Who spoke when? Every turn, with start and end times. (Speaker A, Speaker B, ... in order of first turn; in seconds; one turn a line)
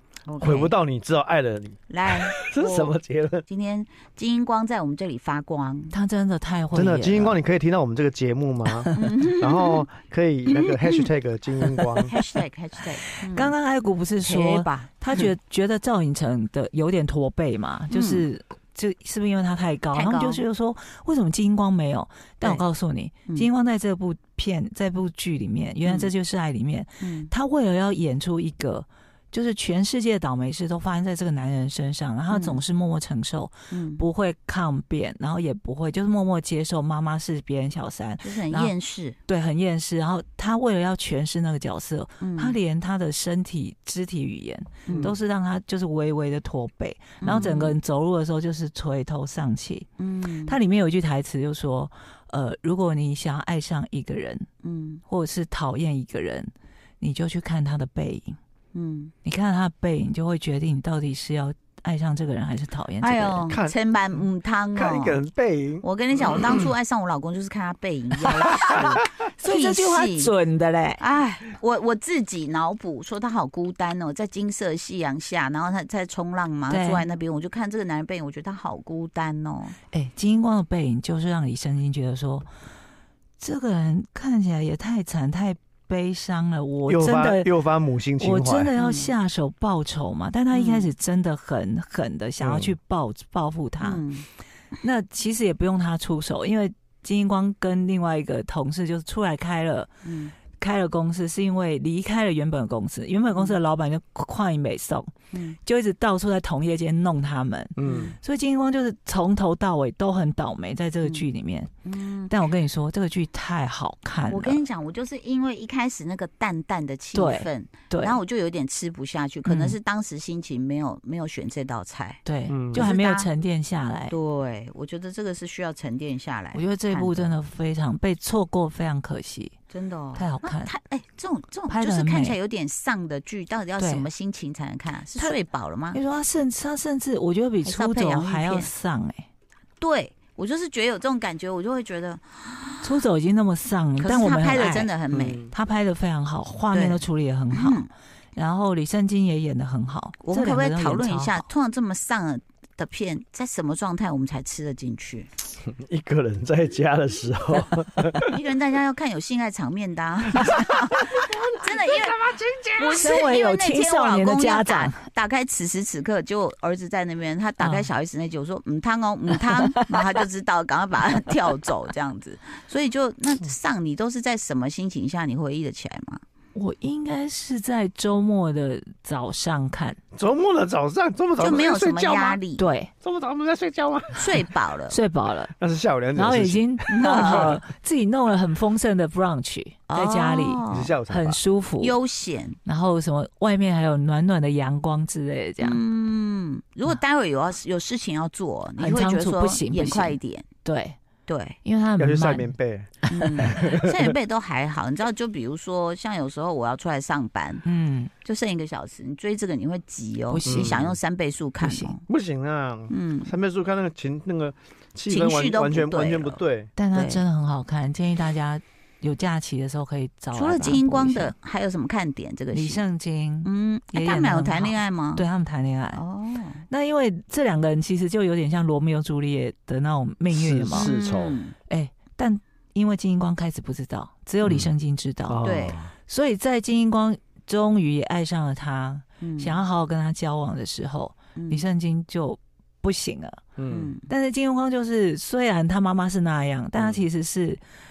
Speaker A: 0.3-0.7
Speaker B: 0.4-3.4
Speaker A: 1.9-2.9
Speaker A: 3.5-5.9
Speaker C: 5.9-7.4
Speaker B: 6.7-12.1
Speaker C: 8.7-9.1
Speaker A: 8.9-9.9
Speaker A: 12.0-13.6
Speaker C: 13.2-38.7
Speaker A: 14.2-15.3
Speaker A: 17.9-18.3
Speaker A: 19.9-20.4
Speaker A: 25.9-26.1
Speaker A: 27.0-27.3
Speaker A: 32.3-32.6
Speaker A: 33.7-34.0
Speaker A: 38.2-39.2
Speaker C: 39.3-49.9
Speaker A: 42.2-42.6
Speaker A: 44.9-45.1
Speaker B: 44.9-45.1
Speaker A: 47.2-47.8
Speaker A: 50.0-50.6
Speaker C: 50.5-54.5
Speaker A: 54.6-55.0
Speaker C: 55.1-58.4
Speaker A: 58.7-59.1
Speaker C: 59.2-63.4
Speaker A: 63.0-65.2
Speaker B: 63.5-63.7
Speaker B: 64.8-66.7
Speaker A: 65.8-70.3
Speaker C: 68.4-71.0
Speaker A: 71.0-79.8
Speaker C: 76.7-77.0
Speaker C: 79.9-82.5
Speaker C: 83.4-87.5
Speaker B: 86.9-88.7
Speaker C: 88.2-94.0
Speaker A: 88.8-89.1
Speaker A: 90.5-90.9
Speaker B: 92.4-92.8
Speaker A: 93.8-94.3
Speaker C: 94.8-99.9
Speaker A: 100.0-100.3
Speaker C: 100.5-111.7
Speaker A: 105.3-105.6
Speaker B: 107.8-108.1
Speaker A: 107.8-108.1
Speaker A: 111.8-112.3
Speaker C: 112.3-114.6
Speaker A: 114.3-122.2
Speaker C: 117.2-118.2
Speaker C: 119.5-119.8
Speaker C: 122.2-124.1
Speaker B: 122.5-122.9
Speaker A: 122.7-123.3
Speaker A: 124.1-127.4
Speaker C: 126.5-129.6
Speaker A: 129.7-136.0
Speaker C: 130.2-130.7
Speaker C: 131.7-132.4
Speaker C: 133.8-134.1
Speaker C: 135.9-139.3
Speaker A: 137.7-138.7
Speaker A: 139.8-143.0
Speaker C: 142.8-144.9
Speaker A: 144.0-145.4
Speaker B: 145.1-145.5
Speaker C: 145.5-147.8
Speaker A: 146.7-147.9
Speaker C: 148.3-151.4
Speaker A: 150.2-155.3
Speaker B: 155.6-158.3
Speaker A: 158.3-162.2
Speaker B: 161.2-163.0
Speaker A: 162.8-176.2
Speaker C: 162.9-165.0
Speaker C: 167.6-167.9
Speaker C: 169.4-170.2
Speaker C: 176.6-180.0
Speaker B: 180.1-182.4
Speaker A: 181.4-182.6
Speaker C: 182.6-182.9
Speaker B: 183.0-184.3
Speaker A: 184.2-185.0
Speaker C: 184.9-185.5
Speaker B: 185.6-187.6
Speaker C: 186.2-192.0
Speaker A: 186.9-187.6
Speaker A: 189.9-190.9
Speaker B: 190.7-191.4
Speaker A: 191.8-192.6
Speaker C: 192.7-195.8
Speaker A: 195.6-200.5
Speaker C: 198.8-201.0
Speaker A: 201.3-201.6
Speaker C: 201.7-202.5
Speaker B: 202.0-204.1
Speaker C: 203.1-203.6
Speaker A: 203.1-207.7
Speaker C: 207.7-208.1
Speaker A: 208.2-212.0
Speaker C: 210.3-210.8
Speaker B: 210.5-211.0
Speaker C: 211.6-211.9
Speaker B: 212.1-216.7
Speaker A: 212.9-213.3
Speaker A: 215.1-216.4
Speaker C: 216.8-221.3
Speaker A: 216.9-217.2
Speaker A: 220.3-222.8
Speaker C: 222.5-226.0
Speaker A: 223.4-225.2
Speaker A: 225.9-226.6
Speaker C: 226.7-230.9
Speaker B: 230.3-231.4
Speaker A: 230.7-231.6
Speaker C: 231.7-243.4
Speaker B: 234.4-234.7
Speaker B: 235.3-235.9
Speaker A: 235.4-235.8
Speaker A: 239.2-239.6
Speaker A: 241.4-241.6
Speaker B: 243.6-243.9
Speaker A: 243.7-244.1
Speaker C: 244.1-247.6
Speaker B: 246.8-247.0